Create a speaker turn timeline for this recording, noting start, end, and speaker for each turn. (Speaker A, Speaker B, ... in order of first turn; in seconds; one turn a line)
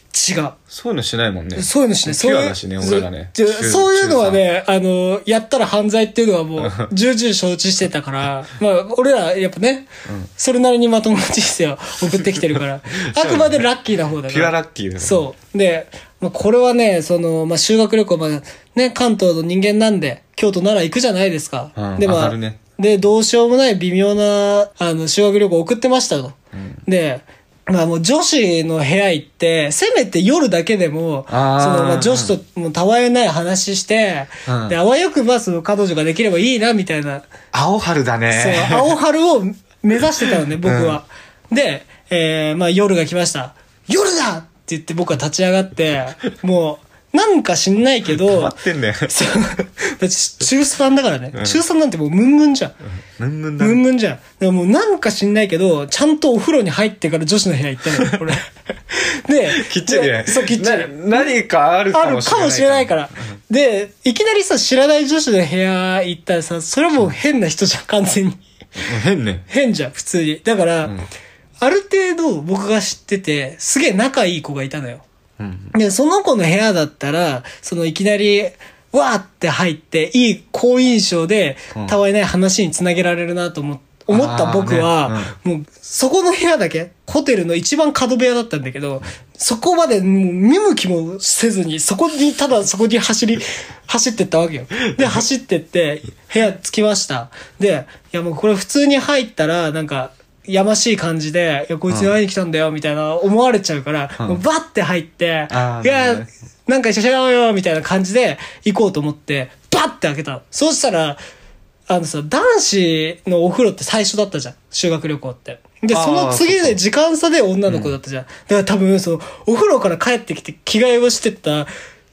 Speaker A: 0.1-0.6
Speaker B: 0.7-4.4
Speaker A: 1.5-37.3
Speaker B: 13.1-13.6
Speaker B: 14.3-15.3
Speaker B: 21.8-22.6
Speaker B: 26.5-26.8
Speaker B: 31.3-32.4
Speaker B: 34.5-34.8
Speaker B: 37.5-38.9
Speaker A: 38.3-48.5
Speaker B: 40.6-41.0
Speaker B: 48.1-49.1
Speaker A: 49.0-52.8
Speaker B: 51.3-51.6
Speaker B: 53.2-53.8
Speaker A: 53.6-61.3
Speaker B: 59.5-63.0
Speaker A: 61.9-68.4
Speaker B: 68.8-69.5
Speaker A: 69.5-70.9
Speaker B: 70.8-71.1
Speaker A: 71.6-75.0
Speaker B: 75.4-75.7
Speaker A: 75.7-111.2
Speaker B: 84.1-85.3
Speaker B: 101.9-102.1
Speaker B: 105.5-106.3
Speaker A: 111.9-121.7
Speaker B: 115.9-116.8
Speaker B: 117.7-117.9